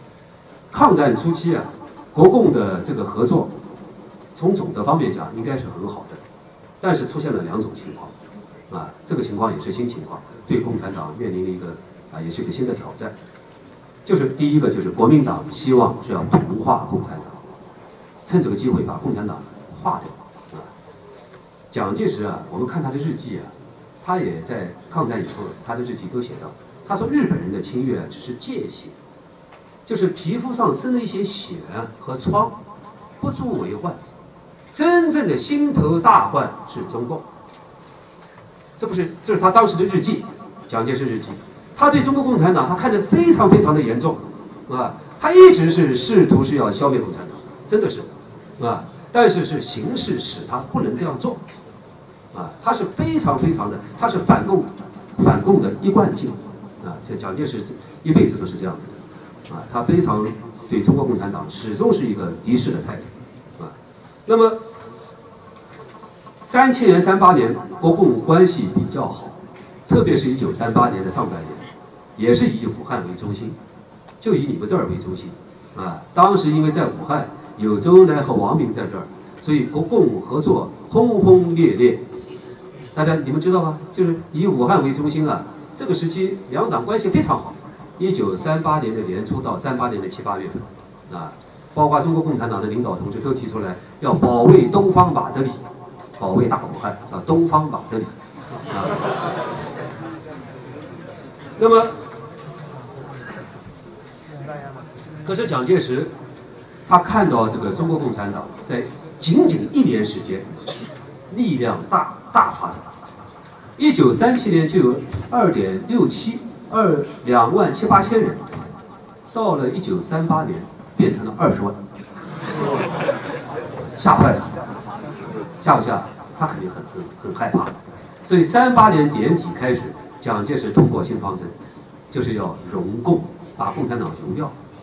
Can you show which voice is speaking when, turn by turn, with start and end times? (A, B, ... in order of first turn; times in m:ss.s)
0:00.7-0:03.5 A
0:04.3-0:06.2 A
0:06.8-0:08.1 A
0:08.7-0:13.1 A
0:14.0-0:17.4 A
0:18.2-0:20.7 A
0:21.7-0:23.5 A
0:24.0-0:28.9 A
0:29.8-0:32.6 A
0:33.2-0:34.0 A
0:34.7-0:37.2 A
0:38.8-0:51.4 A
0:52.3-0:59.0 A
0:59.5-1:03.7 A
1:04.2-1:04.6 A
1:06.4-1:09.3 A
1:09.9-1:11.6 A
1:12.2-1:13.6 A
1:14.2-1:22.0 A
1:22.9-1:35.6 A
1:36.2-1:38.1 A
1:38.7-1:39.0 A
1:41.6-1:41.9 A
1:45.2-1:46.1 A
1:46.9-1:50.4 A
1:51.3-1:52.9 A
1:53.8-1:58.4 A
1:59.3-2:01.8 A
2:04.0-2:04.6 A
2:05.6-2:11.5 A
2:12.1-2:14.5 A